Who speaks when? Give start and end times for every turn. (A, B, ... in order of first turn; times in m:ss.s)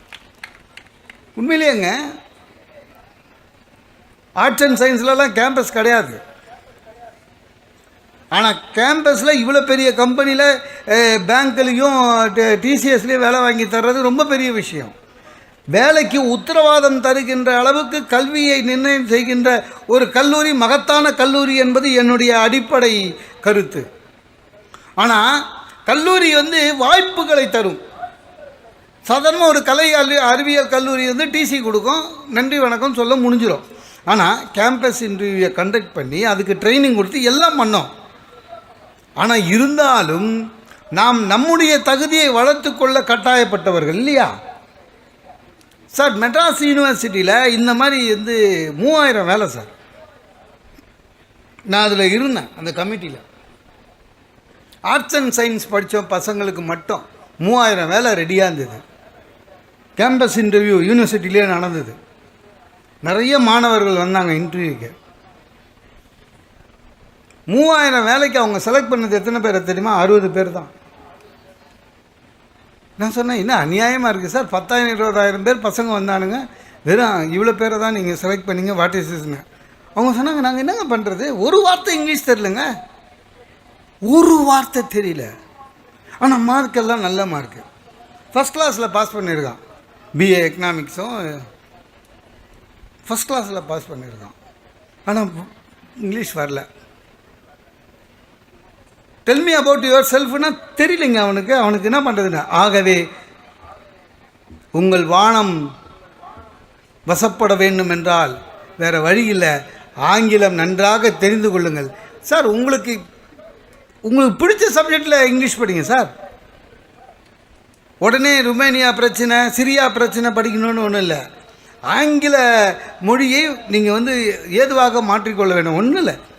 0:01.4-0:01.9 A
0:04.4-0:06.2 A
0:08.3-0:14.9 A
0:15.7-0:23.8 A
0:25.0-0:27.8 A
0:29.1-0:37.9 A
0:39.2-0:40.3 A
0:40.9-0:44.3 A
0:45.9-0:49.7 A
0:51.7-0:53.2 A
0:54.9-0:58.8 A
1:00.0-1:01.9 A
1:03.0-1:04.9 A
1:07.5-1:10.7 A
1:13.0-1:19.4 A
1:20.0-1:22.7 A
1:24.1-1:25.3 A
1:26.2-1:27.6 A
1:28.3-1:29.6 A
1:30.1-1:31.4 A
1:33.1-1:34.4 A
1:35.1-1:36.6 A
1:39.2-1:43.0 A
1:44.7-1:45.6 A
1:47.1-1:53.0 A
1:54.0-1:56.1 A
1:58.0-2:01.2 A
2:01.9-2:06.2 A